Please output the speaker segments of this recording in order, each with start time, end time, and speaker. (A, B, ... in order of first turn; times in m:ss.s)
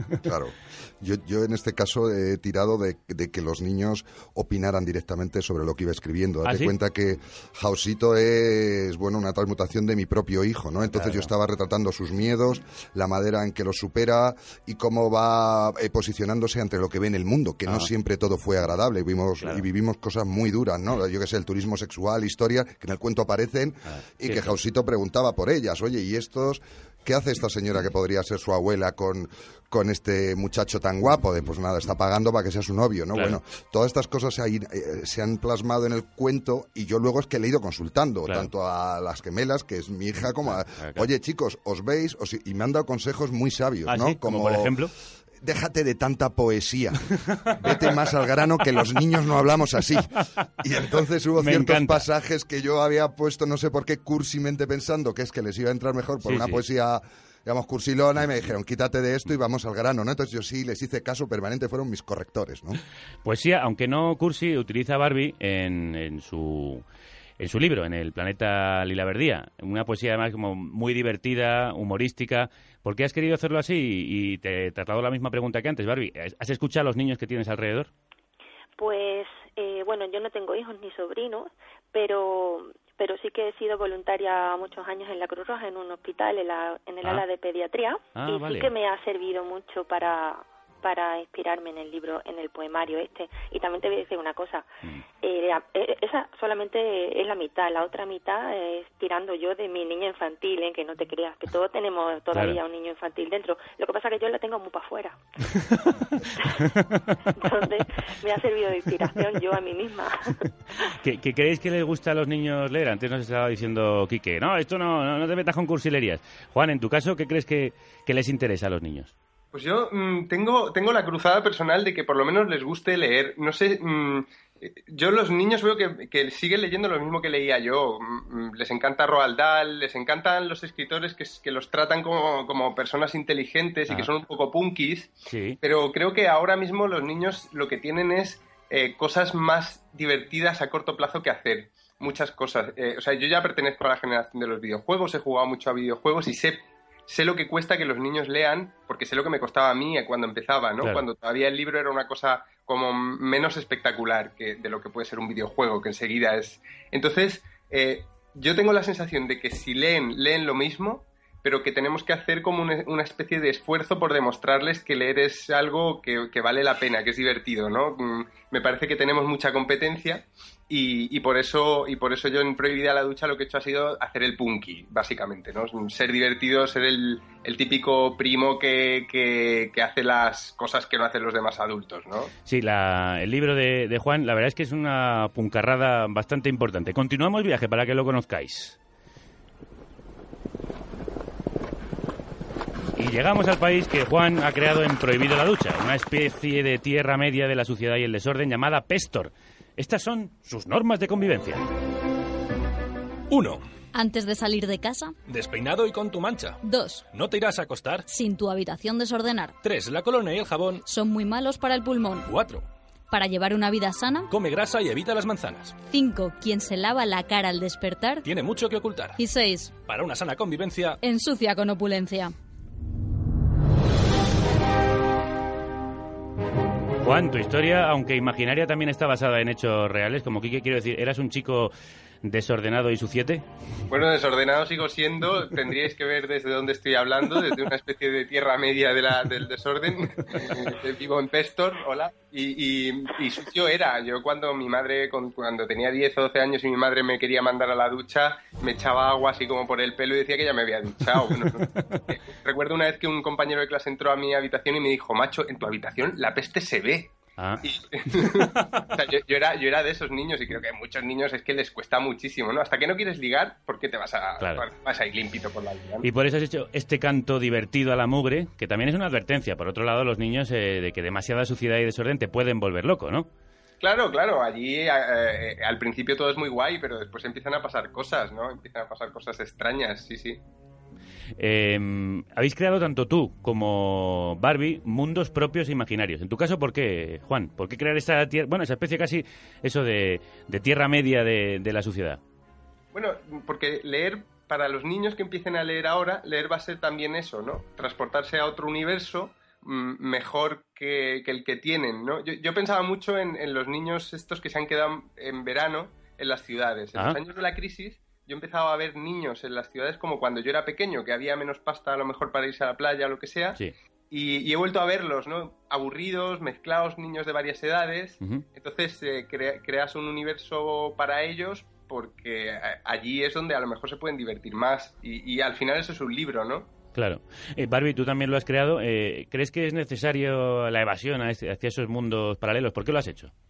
0:00.2-0:44.8 A
0:06.4-0:06.7 B
0:10.9-0:11.3 B
0:24.2-0:24.5 B
0:40.6-0:41.0 B
0:43.9-0:44.9 B
0:45.4-1:02.8 A
0:47.3-0:47.6 B
0:50.2-0:50.4 B
0:51.4-0:52.0 B
0:56.2-0:56.6 B
1:03.2-1:06.8 B
1:07.4-1:17.9 B
1:18.8-1:34.7 C
1:28.2-1:28.7 B
1:35.2-1:45.2 C
1:42.3-1:42.6 B
1:45.6-1:46.0 B
1:46.6-1:47.1 B
1:47.3-1:50.4 C
1:50.9-1:59.1 B
1:59.5-3:02.3 D
2:15.2-2:15.6 B
3:02.4-3:08.8 B
3:13.0-3:21.6 B
3:23.3-3:23.6 E
3:23.9-3:25.2 F
3:25.3-3:26.6 E
3:26.6-3:27.0 F
3:27.1-3:28.0 E
3:28.1-3:29.6 F
3:29.6-3:30.8 E
3:30.8-3:32.3 F
3:32.2-3:32.6 E
3:33.1-3:34.3 F
3:34.3-3:35.8 E
3:35.9-3:38.2 F
3:38.2-3:39.2 E
3:39.2-3:39.8 F
3:39.8-3:41.0 E
3:41.0-3:42.3 F
3:47.0-3:51.7 B
3:52.2-3:53.4 B
3:53.9-4:26.1 D
4:17.4-4:17.6 B
4:24.4-4:24.6 B
4:26.0-4:33.3 B
4:33.8-4:40.4 D
4:41.4-4:52.2 B
4:52.9-5:13.6 D
5:14.1-5:26.7 D
5:26.9-5:33.3 B